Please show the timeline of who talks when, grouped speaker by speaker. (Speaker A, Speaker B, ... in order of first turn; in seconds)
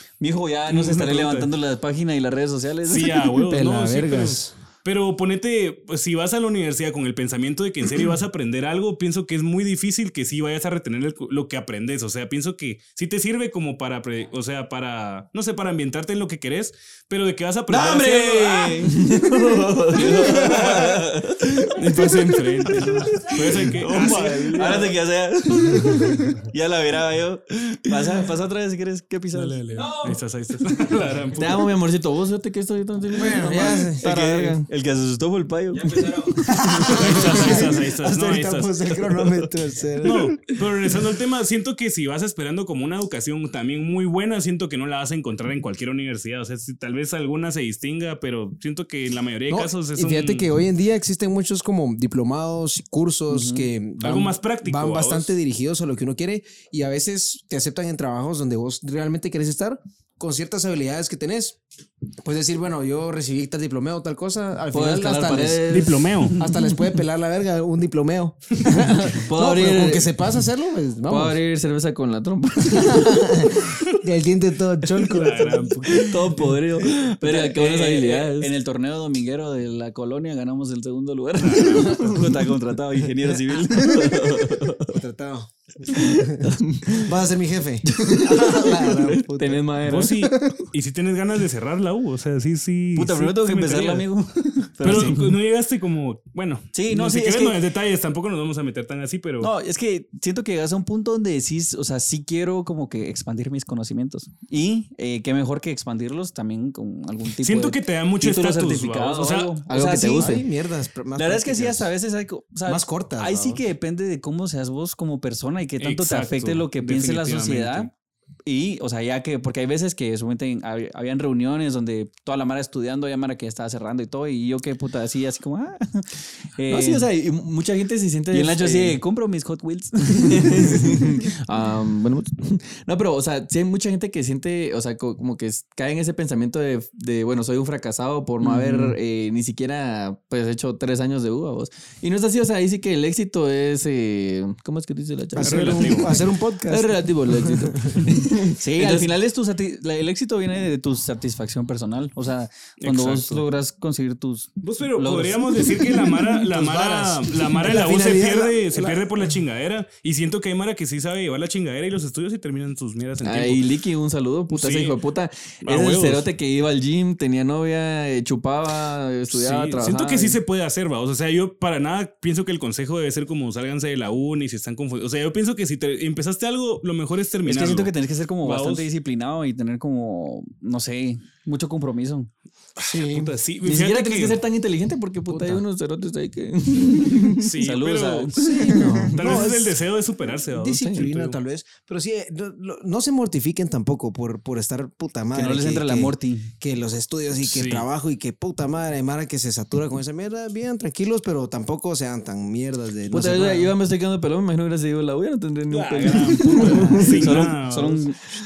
Speaker A: 0.2-3.3, 22.7-24.9, 29.7-30.2, 34.0-37.4, 53.4-53.6, 77.0-84.6, 93.0-95.3, 96.7-97.6, 99.4-110.4, 111.1-117.9, 118.5-127.1, 128.3-131.2, 138.4-139.0, 148.5-156.1, 177.4-182.3, 187.7-188.0, 188.7-189.1, 195.3-196.5, 207.2-208.2
Speaker B: 0.7-1.5, 2.9-18.9, 20.1-21.1, 21.7-24.9, 29.3-31.7, 36.9-38.7, 40.0-50.5, 54.0-55.3, 65.7-66.4, 75.0-76.5, 81.4-82.4, 89.9-94.1, 94.8-99.5, 107.4-109.6, 115.8-117.9, 145.4-146.2, 152.8-153.4, 154.6-163.7, 164.5-164.9, 165.6-166.3, 169.3-178.9, 182.9-184.4, 187.4-191.4, 197.4-197.8, 205.7-208.1
Speaker C: 3.5-4.5, 25.8-26.1, 33.1-34.0, 36.4-40.4, 49.5-61.6, 62.2-65.8, 66.4-71.4, 72.6-76.1, 84.9-90.7, 109.7-111.9, 112.7-113.6, 145.4-148.1, 156.3-159.2, 182.8-183.3, 185.3-185.6, 188.4-189.8, 190.5-203.7, 206.6-207.2
Speaker D: 17.7-29.9, 31.4-34.7, 35.7-37.6, 64.7-66.2, 69.3-70.1, 71.1-73.6, 75.9-78.5, 83.3-84.9, 85.9-87.1, 87.9-90.3, 94.8-95.2, 109.7-110.4, 126.7-129.0, 130.1-149.1, 163.2-170.4, 183.6-189.1, 190.8-191.0, 203.1-207.6